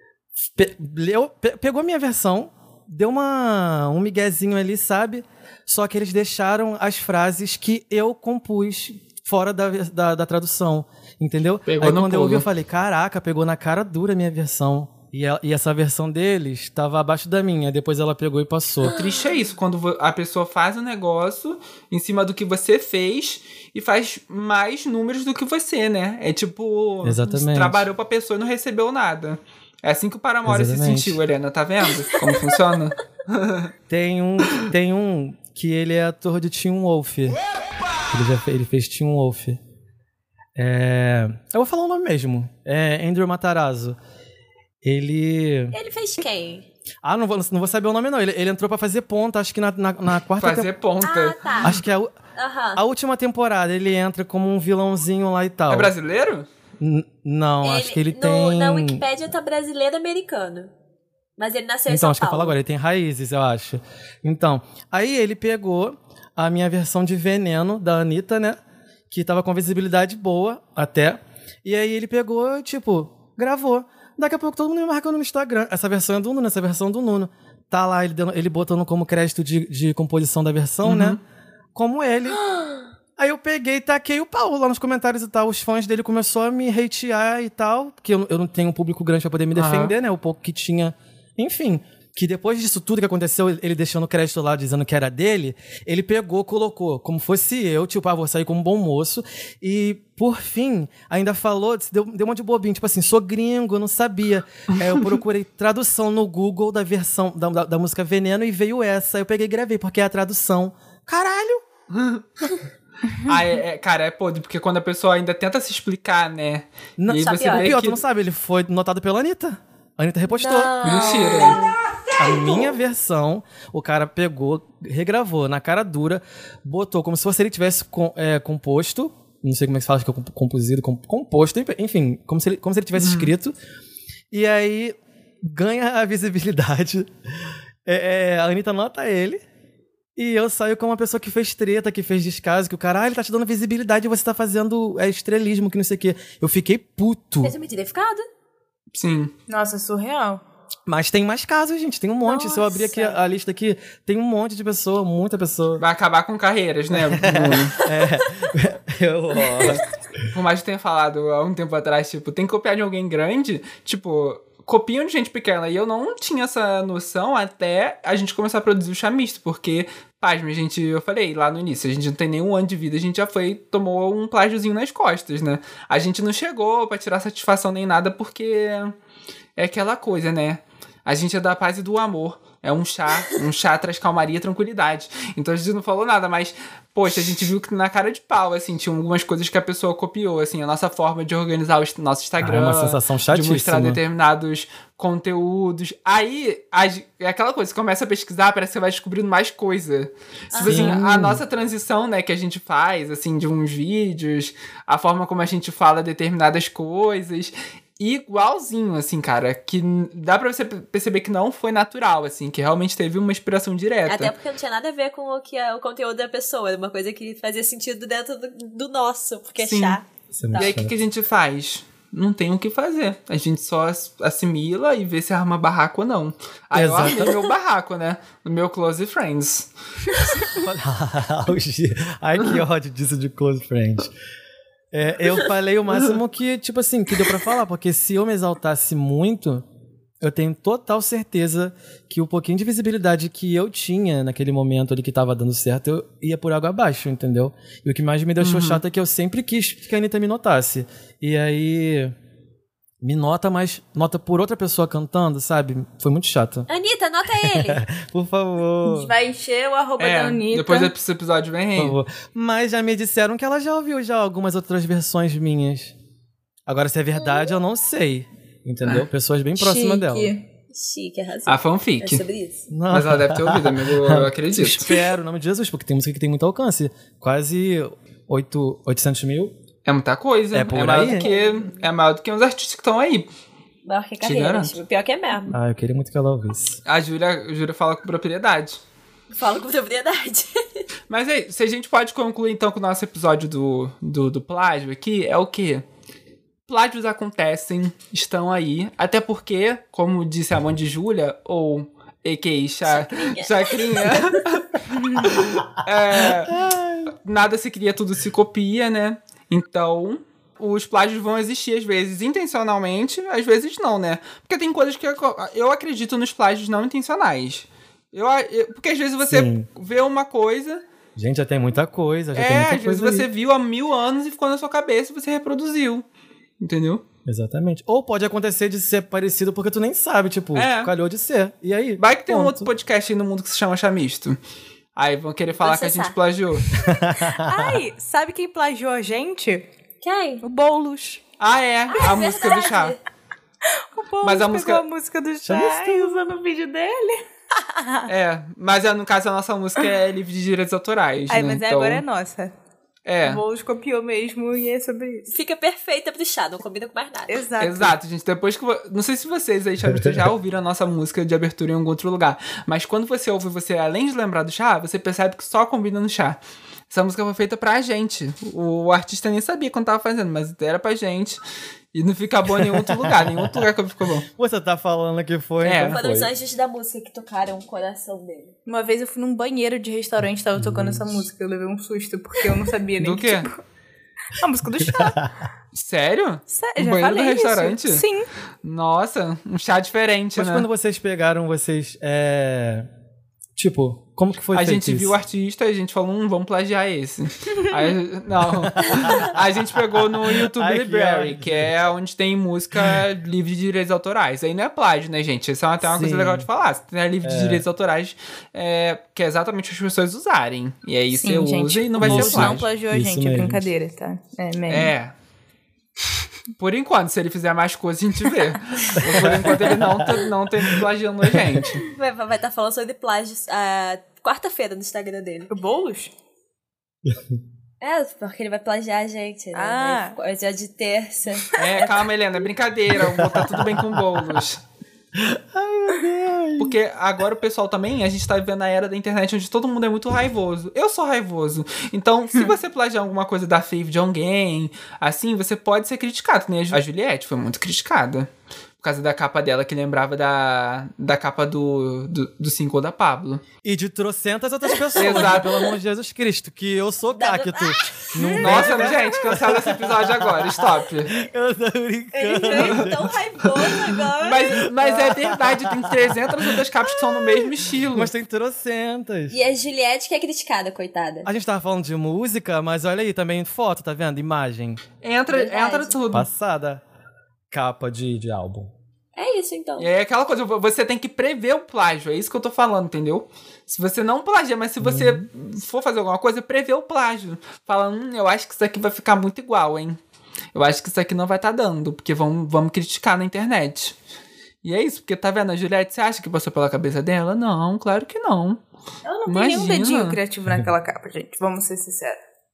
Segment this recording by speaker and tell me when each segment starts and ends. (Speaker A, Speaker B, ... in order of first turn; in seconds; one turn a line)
Speaker A: 0.5-18.9
Speaker B: 11.7-12.4
Speaker B: 18.8-33.7
Speaker C: 18.9-19.2
Speaker A: 27.0-27.9
Speaker A: 30.4-31.2
Speaker A: 33.9-37.4
Speaker A: 38.1-39.6
Speaker A: 40.5-44.0
Speaker A: 44.8-45.8
Speaker C: 45.7-46.6
Speaker A: 47.0-50.7
Speaker B: 50.4-51.8
Speaker C: 51.0-51.7
Speaker A: 51.6-52.1
Speaker C: 52.4-52.8
Speaker A: 52.7-55.9
Speaker B: 55.7-56.5
Speaker A: 56.8-59.0
Speaker C: 57.6-60.7
Speaker C: 61.4-62.5
Speaker A: 61.9-68.6
Speaker A: 69.1-81.2
Speaker B: 80.8-81.2
Speaker A: 81.7-82.4
Speaker A: 83.2-111.6
Speaker B: 89.5-89.9
Speaker B: 111.9-112.2
Speaker B: 113.2-118.0
Speaker A: 117.0-121.2
Speaker C: 117.3-117.7
Speaker C: 120.3-122.7
Speaker B: 120.8-121.7
Speaker A: 122.2-133.5
Speaker B: 132.9-133.3
Speaker A: 134.3-137.1
Speaker A: 137.8-139.4
Speaker A: 140.2-147.5
Speaker C: 147.4-148.2
Speaker B: 148.9-149.3
Speaker D: 149.5-150.4
Speaker A: 150.9-155.8
Speaker C: 152.3-153.1
Speaker B: 155.8-157.8
Speaker A: 156.9-159.8
Speaker B: 159.6-178.9
Speaker B: 179.6-214.3
Speaker A: 192.4-194.0
Speaker C: 200.5-201.0
Speaker A: 200.6-201.4
Speaker C: 214.1-220.8
Speaker B: 219.6-220.0
Speaker A: 220.3-220.9
Speaker B: 220.5-229.7
Speaker A: 226.7-227.4
Speaker A: 230.4-234.1
Speaker A: 234.9-239.6
Speaker A: 240.2-252.1
Speaker B: 248.4-248.8
Speaker A: 253.0-256.7
Speaker C: 256.7-257.8
Speaker A: 257.4-259.1
Speaker D: 258.8-260.9
Speaker B: 260.0-262.0
Speaker A: 261.8-265.9
Speaker A: 266.7-270.3
Speaker D: 269.6-270.4
Speaker C: 270.7-272.6
Speaker B: 271.5-272.2
Speaker A: 272.7-279.5
Speaker B: 272.9-274.9
Speaker B: 279.9-283.3
Speaker A: 280.5-281.3
Speaker C: 280.7-281.9
Speaker C: 283.8-285.6
Speaker B: 284.2-284.8
Speaker A: 285.5-286.8
Speaker B: 286.9-288.8
Speaker C: 289.3-290.8
Speaker B: 291.1-295.8
Speaker B: 296.7-306.6
Speaker C: 302.8-304.4
Speaker A: 306.5-307.1
Speaker B: 307.2-320.8
Speaker A: 319.2-319.7
Speaker A: 321.1-323.3
Speaker B: 322.3-326.0
Speaker B: 326.6-327.0
Speaker A: 327.2-332.7
Speaker B: 330.5-330.9
Speaker B: 332.0-334.4
Speaker B: 334.9-336.6
Speaker C: 335.6-336.1
Speaker A: 336.7-337.8
Speaker D: 337.1-339.6
Speaker C: 340.0-340.4
Speaker D: 340.4-341.2
Speaker B: 341.4-342.9
Speaker C: 341.9-343.0
Speaker D: 343.7-348.1
Speaker B: 344.2-344.8
Speaker A: 345.4-346.2
Speaker B: 348.1-352.0
Speaker D: 351.3-352.5
Speaker B: 353.0-353.4
Speaker D: 353.2-355.3
Speaker C: 355.3-357.3
Speaker D: 357.3-357.9
Speaker B: 357.6-366.4
Speaker B: 366.9-371.4
Speaker B: 371.9-374.3
Speaker A: 372.6-373.7
Speaker A: 374.4-376.3
Speaker B: 375.6-376.0
Speaker C: 375.9-378.5
Speaker D: 378.7-383.6
Speaker A: 380.6-381.2
Speaker B: 383.0-383.5
Speaker D: 384.4-385.2
Speaker A: 384.8-385.3
Speaker B: 385.7-388.1
Speaker D: 386.5-388.3
Speaker B: 388.6-390.7
Speaker A: 390.4-392.9
Speaker A: 393.6-395.1
Speaker B: 394.5-412.6
Speaker A: 398.4-399.4
Speaker A: 399.9-401.7
Speaker A: 405.8-406.5
Speaker A: 407.2-407.6
Speaker D: 411.2-414.9
Speaker A: 412.0-413.7
Speaker B: 414.7-415.1
Speaker B: 416.6-421.9
Speaker A: 419.0-421.6
Speaker C: 421.8-425.5
Speaker D: 425.5-426.1
Speaker A: 427.1-427.4
Speaker C: 427.8-432.1
Speaker D: 429.5-430.2
Speaker B: 431.6-434.6
Speaker A: 433.0-434.2
Speaker A: 435.1-436.8
Speaker B: 436.6-453.4
Speaker A: 453.6-463.6
Speaker C: 454.9-455.4
Speaker B: 455.0-455.5
Speaker C: 457.1-458.7
Speaker D: 458.2-458.4
Speaker B: 458.4-461.2
Speaker C: 462.1-464.7
Speaker B: 462.4-462.9
Speaker B: 464.2-468.1
Speaker A: 464.8-469.4
Speaker C: 469.3-471.3
Speaker A: 471.2-474.8
Speaker B: 475.0-476.3
Speaker C: 475.3-475.9
Speaker A: 476.1-476.8
Speaker A: 477.5-478.7
Speaker C: 479.1-479.9
Speaker B: 479.8-490.0
Speaker A: 484.8-485.2
Speaker B: 490.5-494.0
Speaker B: 494.6-498.6
Speaker D: 499.0-502.2
Speaker B: 499.3-500.2